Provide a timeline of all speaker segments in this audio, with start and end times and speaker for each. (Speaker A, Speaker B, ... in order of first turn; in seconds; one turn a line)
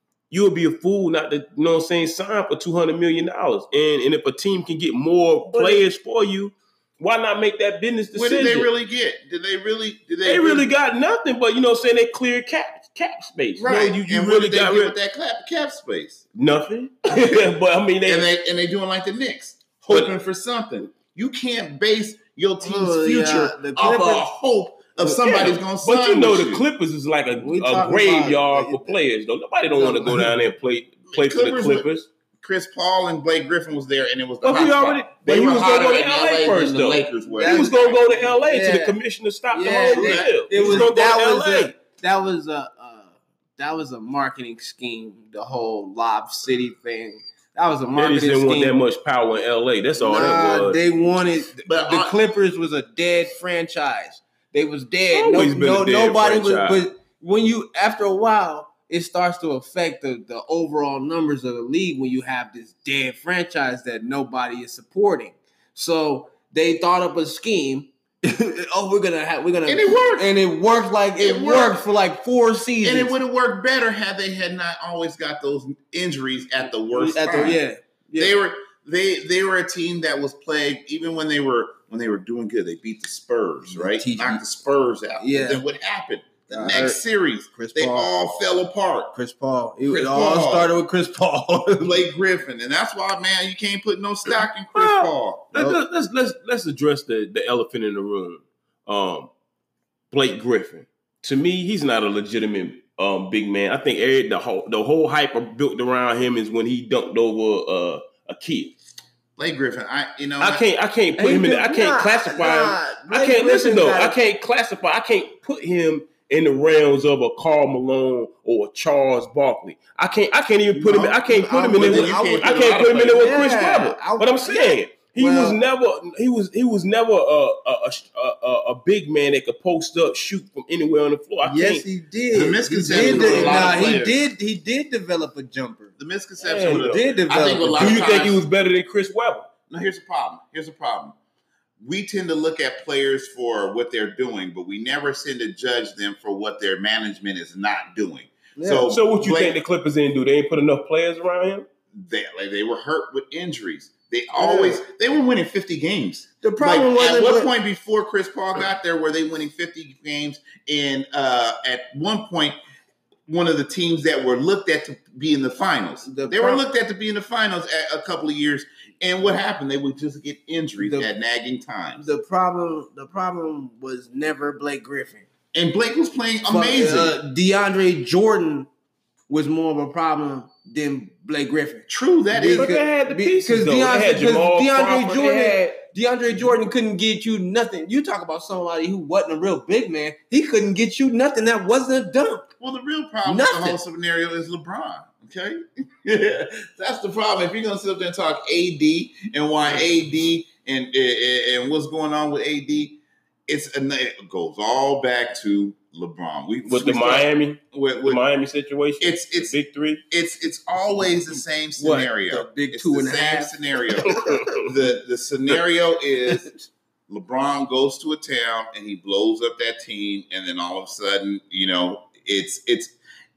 Speaker A: 0.3-8.7
Speaker B: 5.5-5.8
Speaker B: 8.1-10.7
Speaker A: 10.2-14.9
Speaker B: 13.6-16.2
Speaker A: 16.3-18.3
Speaker B: 17.1-17.5
Speaker B: 18.1-26.6
Speaker C: 22.6-24.2
Speaker A: 25.1-32.1
Speaker C: 27.4-29.0
Speaker C: 29.8-30.3
Speaker B: 31.1-31.9
Speaker B: 32.4-38.2
Speaker A: 34.4-41.7
Speaker C: 37.2-39.0
Speaker C: 39.5-48.8
Speaker B: 39.9-40.9
Speaker A: 47.9-50.8
Speaker C: 50.0-73.1
Speaker B: 51.6-52.2
Speaker A: 55.1-56.8
Speaker B: 69.7-70.3
Speaker B: 71.2-71.8
Speaker B: 72.8-77.6
Speaker C: 76.9-78.3
Speaker B: 78.2-89.1
Speaker C: 83.6-84.4
Speaker C: 85.2-85.6
Speaker C: 86.5-87.0
Speaker C: 87.5-88.1
Speaker C: 89.1-92.0
Speaker B: 89.9-90.7
Speaker B: 91.8-95.5
Speaker A: 94.7-99.3
Speaker C: 95.5-95.8
Speaker A: 100.1-108.7
Speaker B: 109.4-110.6
Speaker A: 110.4-131.8
Speaker C: 111.2-114.2
Speaker B: 120.7-123.4
Speaker C: 120.8-125.6
Speaker C: 131.4-135.9
Speaker B: 132.3-134.1
Speaker A: 132.8-134.2
Speaker B: 136.0-138.4
Speaker A: 136.4-137.0
Speaker C: 136.6-138.1
Speaker A: 137.8-139.5
Speaker B: 139.7-141.2
Speaker B: 141.8-149.6
Speaker C: 148.6-148.9
Speaker A: 148.9-151.7
Speaker B: 151.9-162.6
Speaker C: 154.3-154.8
Speaker C: 156.4-157.5
Speaker B: 163.3-172.1
Speaker C: 166.0-166.6
Speaker C: 170.8-171.1
Speaker C: 172.0-175.2
Speaker B: 175.5-177.2
Speaker C: 176.5-178.7
Speaker C: 179.3-192.5
Speaker B: 181.9-182.7
Speaker A: 182.5-185.7
Speaker B: 192.6-208.2
Speaker C: 193.2-193.8
Speaker A: 206.6-210.0
Speaker B: 209.0-209.5
Speaker B: 210.1-216.5
Speaker C: 211.8-214.5
Speaker A: 214.1-214.7
Speaker B: 217.1-222.9